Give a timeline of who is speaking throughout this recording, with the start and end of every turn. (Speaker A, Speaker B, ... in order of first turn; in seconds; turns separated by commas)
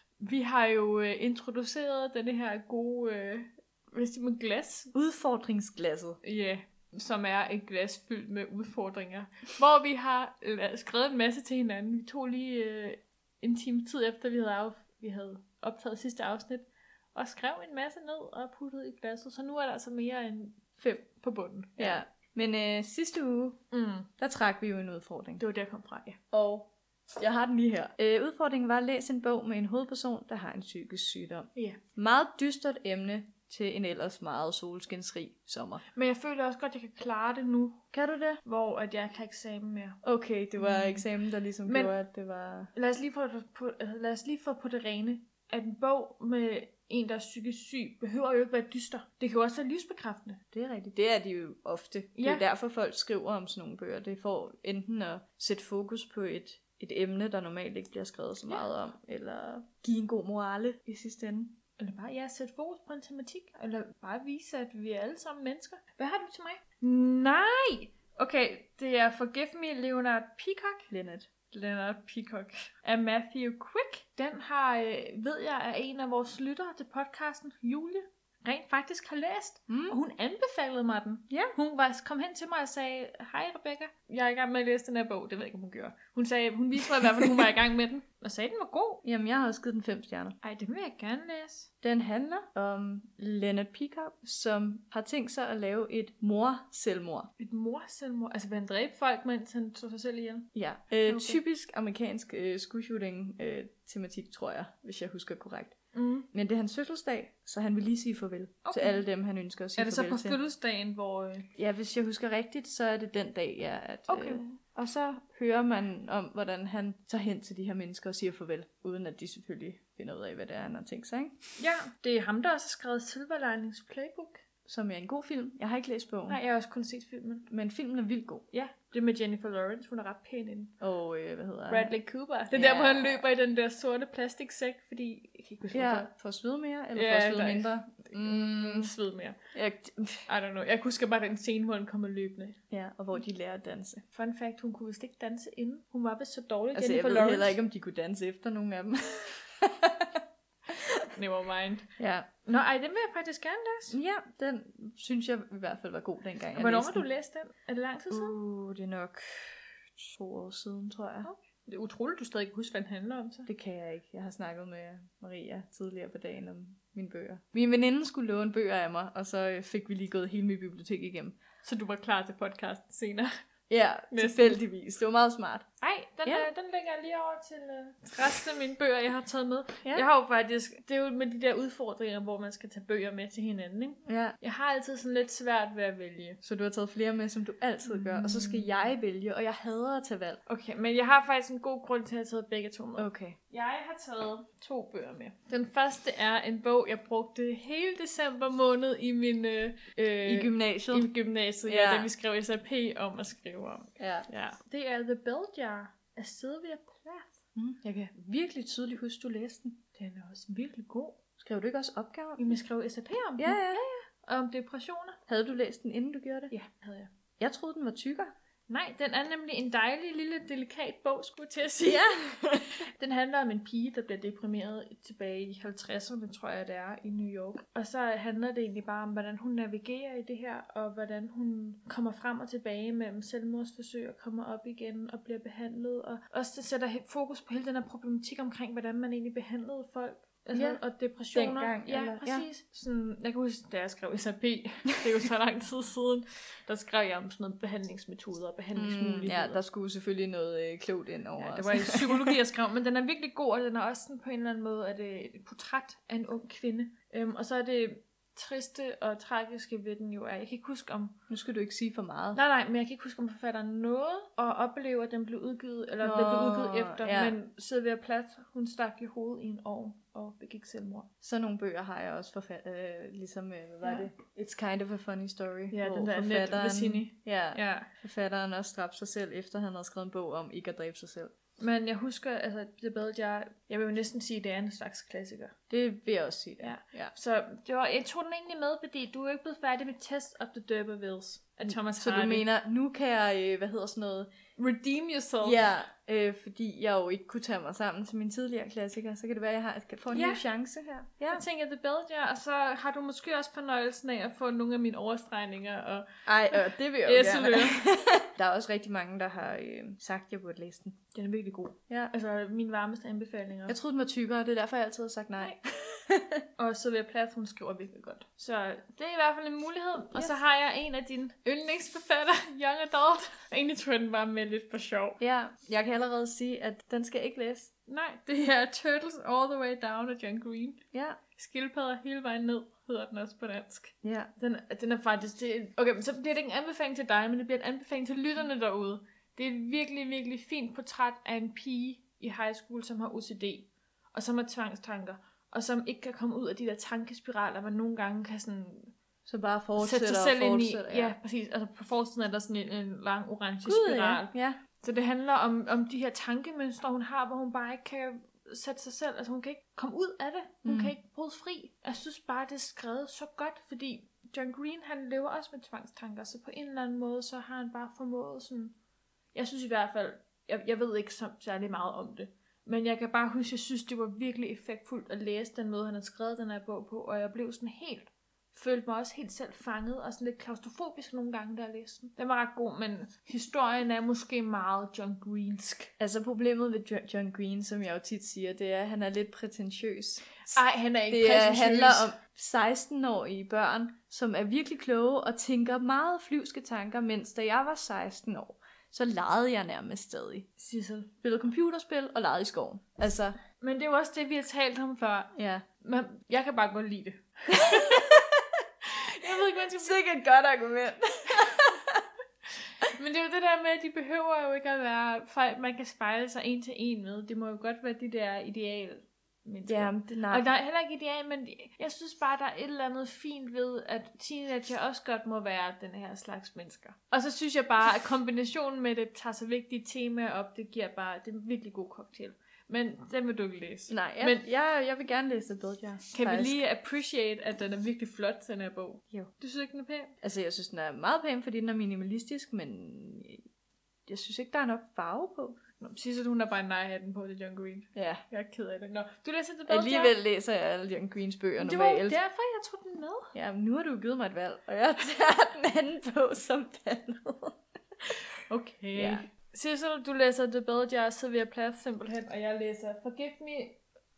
Speaker A: 0.2-4.9, Speaker B: 4.9-6.2, Speaker A: 6.2-22.0, Speaker B: 21.8-23.6, Speaker A: 23.7-24.1, Speaker B: 24.2-25.4, Speaker A: 25.4-26.2, Speaker B: 26.3-35.8, Speaker A: 36.0-37.9, Speaker B: 37.9-38.4, Speaker A: 38.4-40.0, Speaker B: 40.0-42.7, Speaker A: 40.6-41.1, Speaker A: 41.7-41.9, Speaker A: 42.7-50.4, Speaker B: 50.5-61.6, Speaker A: 52.2-52.5, Speaker A: 61.8-70.9, Speaker B: 70.9-71.3, Speaker A: 71.5-89.0, Speaker B: 79.7-80.0, Speaker B: 89.0-90.4, Speaker A: 90.4-91.7, Speaker B: 91.8-97.3, Speaker A: 97.4-100.5, Speaker B: 100.5-105.8, Speaker A: 101.1-101.4, Speaker A: 105.9-106.3, Speaker B: 106.3-110.4, Speaker A: 108.7-109.0, Speaker A: 109.8-111.5, Speaker B: 111.6-121.4, Speaker A: 114.1-114.4, Speaker A: 121.6-124.4, Speaker B: 124.7-126.4, Speaker A: 126.3-127.5, Speaker B: 127.5-128.5, Speaker A: 128.5-130.8, Speaker B: 130.8-131.9, Speaker A: 131.7-136.1, Speaker B: 132.5-133.2, Speaker B: 135.7-138.9, Speaker A: 136.9-139.4, Speaker B: 139.5-140.3, Speaker A: 140.3-142.6, Speaker B: 142.7-144.0, Speaker A: 144.1-147.6, Speaker B: 146.8-151.1, Speaker A: 151.2-151.9, Speaker B: 152.0-152.3, Speaker A: 152.5-154.0, Speaker B: 153.9-157.1, Speaker A: 156.6-158.4, Speaker B: 158.1-161.3, Speaker A: 161.2-163.5, Speaker B: 163.5-171.4, Speaker A: 171.6-173.3, Speaker B: 173.7-175.7, Speaker A: 174.1-174.6, Speaker A: 175.8-186.4, Speaker B: 184.1-184.4, Speaker B: 186.4-190.4, Speaker A: 187.9-188.9, Speaker A: 190.5-207.4, Speaker B: 193.0-193.4, Speaker B: 200.2-201.1, Speaker B: 201.7-202.1, Speaker B: 204.0-204.3, Speaker B: 207.6-209.8, Speaker A: 210.0-211.2, Speaker B: 211.4-212.6, Speaker A: 212.4-215.2, Speaker B: 213.4-213.8, Speaker B: 215.3-216.5, Speaker A: 216.5-217.1, Speaker B: 217.4-218.3, Speaker A: 218.7-222.2, Speaker B: 221.8-222.9, Speaker A: 222.8-249.6, Speaker B: 240.5-240.8, Speaker B: 241.3-242.5, Speaker B: 248.8-252.4, Speaker A: 251.4-261.2, Speaker B: 261.3-262.4, Speaker A: 262.4-271.1, Speaker B: 266.0-267.4, Speaker B: 271.2-281.3, Speaker A: 273.8-274.1, Speaker A: 275.7-277.9, Speaker A: 281.6-285.5, Speaker B: 285.7-287.1, Speaker A: 286.6-292.5, Speaker B: 291.7-294.3, Speaker A: 294.6-295.7, Speaker B: 295.4-301.4, Speaker A: 300.1-300.4, Speaker A: 301.3-307.8, Speaker B: 306.3-311.0, Speaker A: 311.1-313.8, Speaker B: 313.7-316.4, Speaker A: 316.6-325.2, Speaker B: 325.2-327.7, Speaker A: 327.9-330.8, Speaker B: 330.9-331.2, Speaker A: 331.4-348.9, Speaker B: 334.0-334.3, Speaker B: 349.3-351.2, Speaker A: 349.8-368.7, Speaker B: 353.6-354.6, Speaker B: 360.6-360.9, Speaker A: 369.3-385.9, Speaker B: 386.0-390.5, Speaker A: 390.4-392.1, Speaker B: 391.1-400.5, Speaker A: 400.6-401.1, Speaker B: 401.2-403.4, Speaker A: 403.6-408.2, Speaker B: 405.4-405.6, Speaker B: 407.5-408.6, Speaker A: 408.9-410.0, Speaker B: 409.3-412.1, Speaker A: 411.4-411.6, Speaker A: 412.8-434.4, Speaker B: 419.7-420.4, Speaker B: 433.9-436.6, Speaker A: 436.1-440.1, Speaker B: 440.2-443.4, Speaker B: 444.1-445.6, Speaker A: 445.8-450.1, Speaker B: 447.9-448.2, Speaker B: 449.7-452.2, Speaker A: 451.6-453.3, Speaker B: 453.3-457.6, Speaker A: 458.5-463.8, Speaker B: 458.9-459.3